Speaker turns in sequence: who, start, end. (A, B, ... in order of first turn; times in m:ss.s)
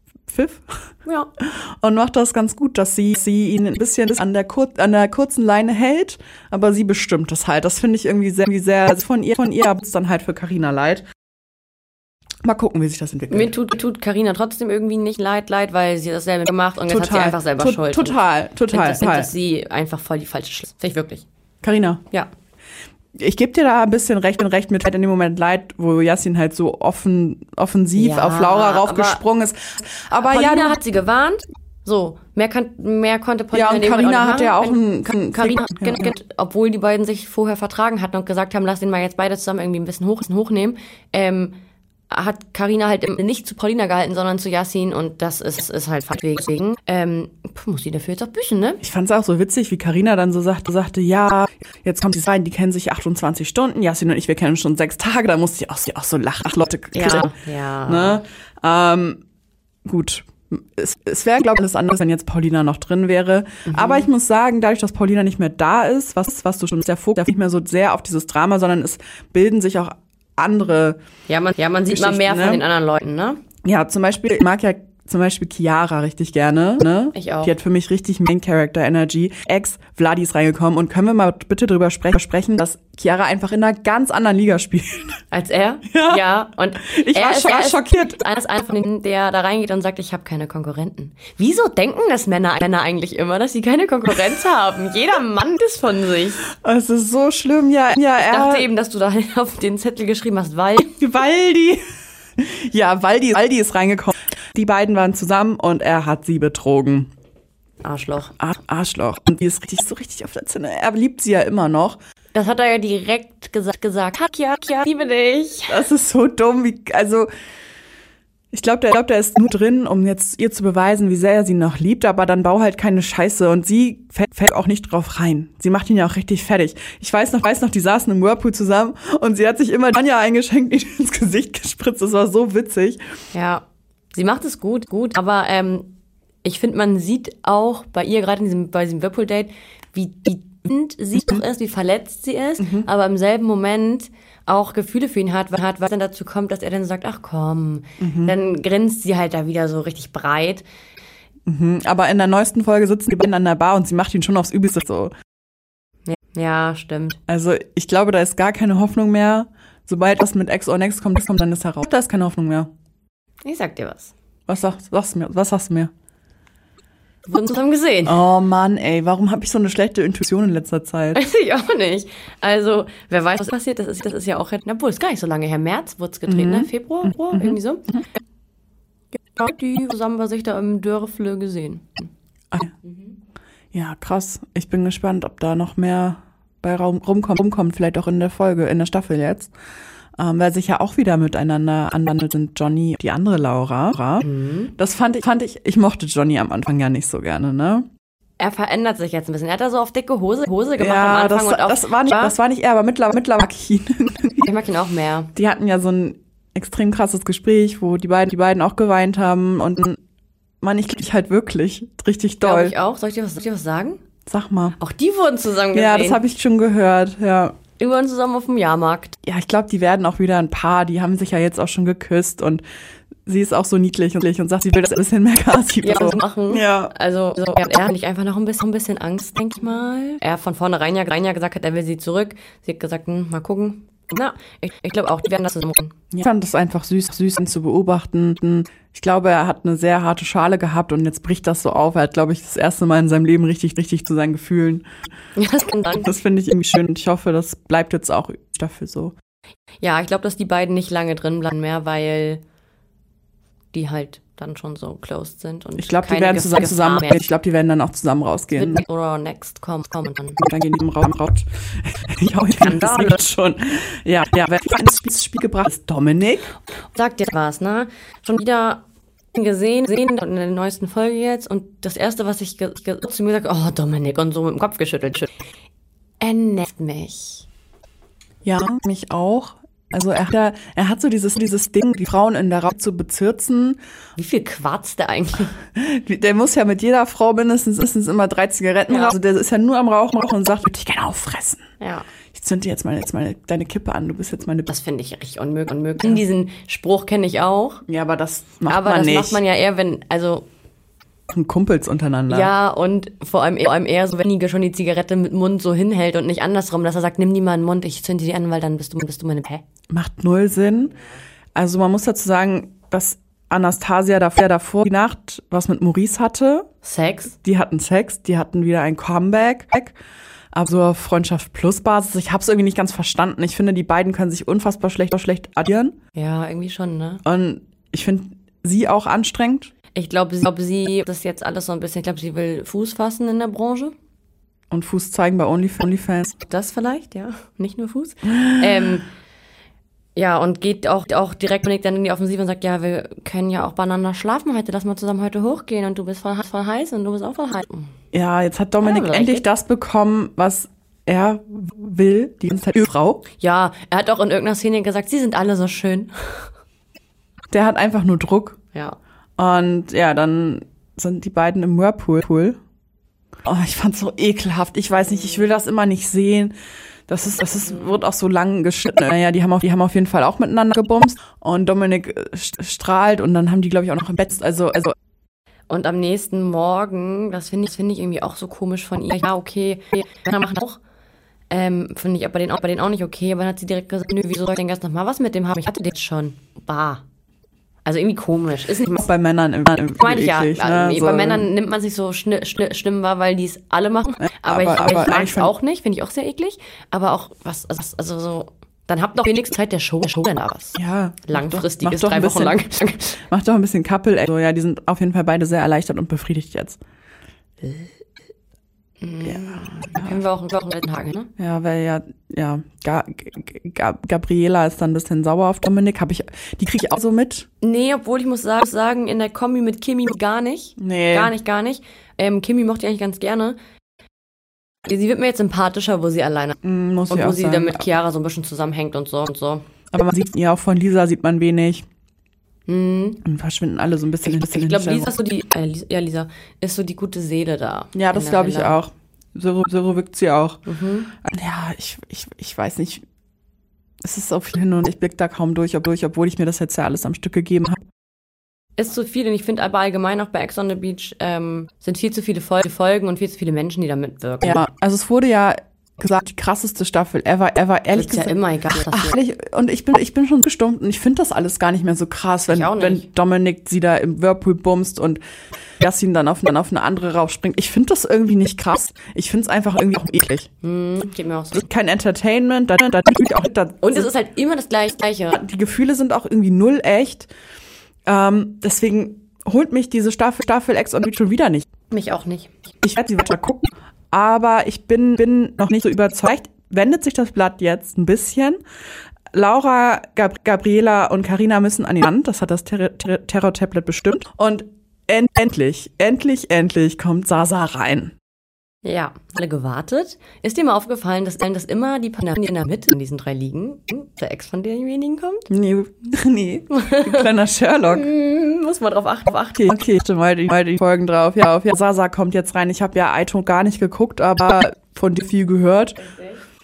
0:00.3-0:00.8 A
0:01.4-0:11.0 A
0:12.4-0:13.5 A
0:13.3-0:21.3 B
0:16.9-0:19.3 A
0:21.6-0:22.0 A
0:23.2-0:30.8 A
0:28.0-0:29.2 B
0:30.2-0:34.8 B
0:33.5-0:36.1 A
0:35.3-0:41.6 B
0:42.1-0:48.8 B
0:48.8-0:57.4 A
0:57.0-0:58.2 B
0:57.9-0:59.2 A
0:59.8-1:11.0 A
1:03.7-1:04.1 B
1:11.3-1:13.4 B
1:11.9-1:12.6 A
1:13.6-1:25.2 A
1:17.1-1:17.6 B
1:25.3-1:36.4 B
1:25.9-1:26.2 A
1:26.8-1:28.2 A
1:36.5-1:38.7 A
1:38.2-1:41.0 B
1:41.0-1:41.8 A
1:42.4-1:47.1 A
1:47.8-1:48.3 B
1:48.4-1:52.0 A
1:52.3-1:55.8 B
1:55.7-1:57.3 A
1:58.5-2:13.0 A
2:13.3-2:30.6 B
2:22.6-2:22.9 A
2:28.0-2:28.4 A
2:31.5-2:35.1 A
2:36.1-2:37.2 B
2:37.3-2:42.7 A
2:43.4-2:44.1 B
2:44.5-2:45.9 A
2:47.3-2:48.2 B
2:48.0-2:51.2 A
2:51.1-2:57.9 B
2:56.3-2:56.7 A
2:57.3-2:58.0 A
2:59.3-3:02.1 B
3:02.8-3:03.1 B
3:03.7-3:09.5 A
3:10.2-3:14.3 A
3:14.2-3:14.7 B
3:14.8-3:17.9 A
3:18.4-3:22.4 B
3:20.8-3:24.5 A
3:24.4-3:25.3 B
3:25.4-3:30.0 A
3:30.6-3:32.8 A
3:32.4-3:34.0 B
3:34.3-3:34.8 A
3:34.8-3:36.2 B
3:35.7-3:37.6 A
3:37.8-3:39.2 B
3:39.2-3:42.6 A
3:43.3-3:46.9 A
3:45.8-3:56.0 B
3:56.1-4:04.8 A
4:05.4-4:06.1 B
4:06.0-4:09.1 A
4:09.8-4:12.4 B
4:13.7-4:17.2 B
4:15.8-4:18.8 A
4:18.5-4:20.4 B
4:20.4-4:26.5 A
4:22.6-4:23.2 B
4:27.0-4:28.8 B
4:29.3-4:35.3 B
4:36.2-4:37.5 B
4:38.4-4:43.8 A
4:44.2-4:45.6 B
4:45.7-4:51.6 A
4:48.9-4:49.1 B
4:51.8-4:52.1 B
4:52.3-4:54.7 A
4:54.7-4:57.8 B
4:57.9-4:59.4 A
4:58.7-5:00.5 B
5:01.3-5:02.5 A
5:02.3-5:09.6 B
5:09.9-5:11.0 A
5:11.6-5:16.7 A
5:16.8-5:17.4 B
5:17.4-5:20.0 A
5:20.5-5:26.0 A
5:26.2-5:27.2 B
5:27.2-5:29.7 A
5:30.0-5:33.9 B
5:34.7-5:36.4 A
5:36.5-5:39.1 B
5:38.3-5:38.9 A
5:40.2-5:47.9 B
5:48.1-5:53.2 A
5:48.8-5:49.5 B
5:53.4-5:56.5 B
5:57.5-5:58.6 A
5:59.4-6:02.6 A
6:03.4-6:06.6 A
6:07.1-6:15.0 A
6:15.7-6:20.8 B
6:21.5-6:27.0 B
6:27.8-6:29.1 B
6:29.0-6:31.5 A
6:30.0-6:43.2 B
6:34.2-6:35.5 A
6:40.8-6:42.6 A
6:43.3-6:46.8 A
6:49.0-6:51.3 B
6:49.2-6:50.2 A
6:51.4-6:57.5 A
6:57.6-7:03.6 B
7:00.8-7:01.3 A
7:04.8-7:06.6 B
7:06.6-7:07.8 A
7:07.1-7:09.6 B
7:09.9-7:11.9 A
7:12.7-7:13.2 B
7:13.2-7:15.1 A
7:14.2-7:18.8 B
7:18.0-7:20.6 A
7:20.7-7:21.1 B
7:21.2-7:23.0 A
7:24.0-7:27.8 A
7:28.8-7:34.6 B
7:34.4-7:45.2 A
7:37.9-7:39.2 B
7:42.5-7:43.1 B
7:45.8-7:50.5 A
7:50.6-7:51.6 B
7:51.5-7:54.1 A
7:53.8-7:55.4 B
7:55.3-7:57.3 A
7:58.1-8:01.7 A
8:01.9-8:02.5 B
8:02.8-8:08.6 A
8:09.3-8:18.1 A
8:18.8-8:25.5 B
8:25.5-8:28.1 A
8:26.7-8:27.3 B
8:27.9-8:29.7 B
8:29.6-8:36.0 A